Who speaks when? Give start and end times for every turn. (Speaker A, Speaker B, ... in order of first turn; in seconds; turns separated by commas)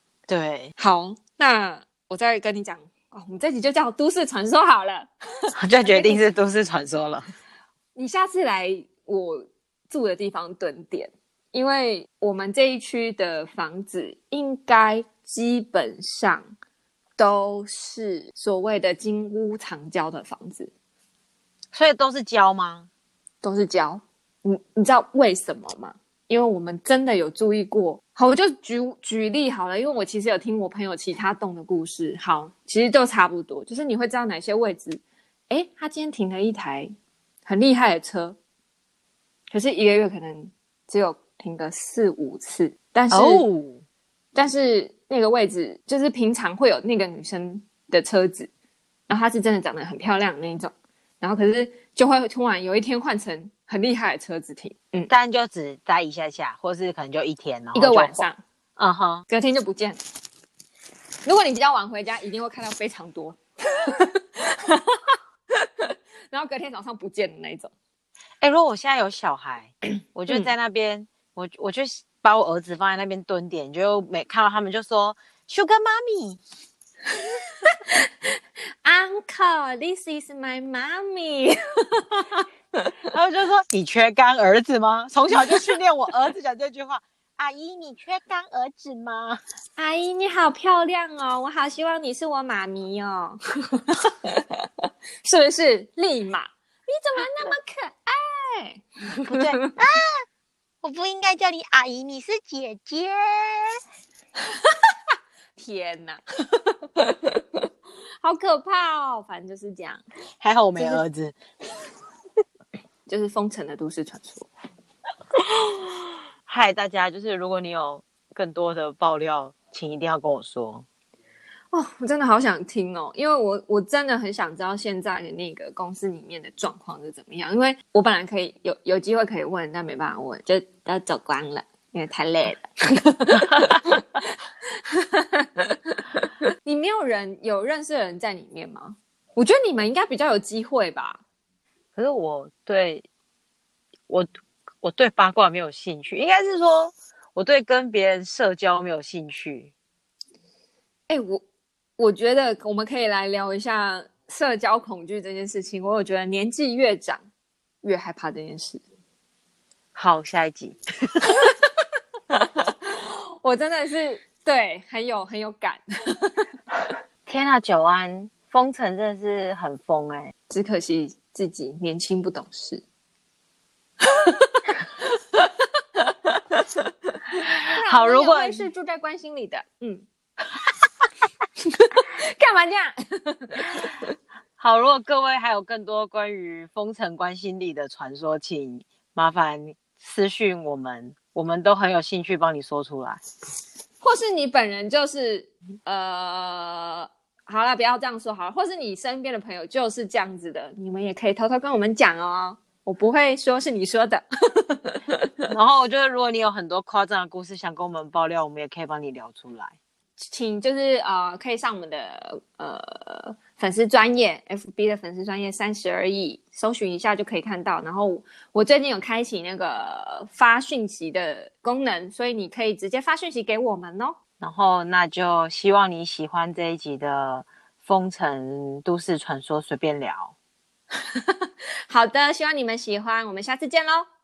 Speaker A: 0.3-0.7, Speaker B: 0.8-6.2, Speaker A: 5.5-7.3, Speaker B: 7.9-16.4, Speaker B: 17.2-20.7, Speaker A: 21.7-22.9, Speaker B: 23.4-36.9, Speaker B: 37.5-38.4, Speaker B: 39.5-43.5, Speaker A: 43.1-43.8, Speaker B: 44.3-48.5, Speaker B: 49.1-55.1, Speaker A: 55.1-58.2, Speaker B: 57.7-58.4, Speaker A: 58.8-59.2, Speaker B: 59.3-60.0, Speaker B: 61.2-67.7, Speaker A: 68.4-76.4, Speaker B: 77.6-82.9, Speaker A: 83.1-89.4, Speaker B: 89.8-94.5, Speaker B: 95.2-99.7, Speaker A: 99.2-100.2, Speaker A: 100.8-103.8, Speaker B: 105.6-107.4, Speaker B: 108.2-110.0, Speaker A: 110.4-111.3, Speaker B: 113.1-114.5, Speaker A: 115.4-115.9, Speaker A: 116.5-120.8, Speaker B: 121.7-134.0, Speaker B: 134.9-141.2, Speaker A: 141.9-143.0, Speaker A: 144.8-149.7, Speaker B: 151.1-151.4, Speaker B: 152.0-157.2, Speaker B: 157.8-158.8, Speaker A: 159.9-160.8, Speaker B: 162.6-166.4, Speaker A: 167.2-170.3, Speaker B: 170.5-172.8, Speaker B: 174.0-180.1, Speaker A: 177.9-178.7, Speaker B: 181.7-184.1, Speaker A: 184.6-193.2, Speaker B: 194.0-205.4, Speaker A: 205.5-209.8, Speaker B: 210.2-224.2, Speaker A: 224.4-230.3, Speaker B: 231.1-234.1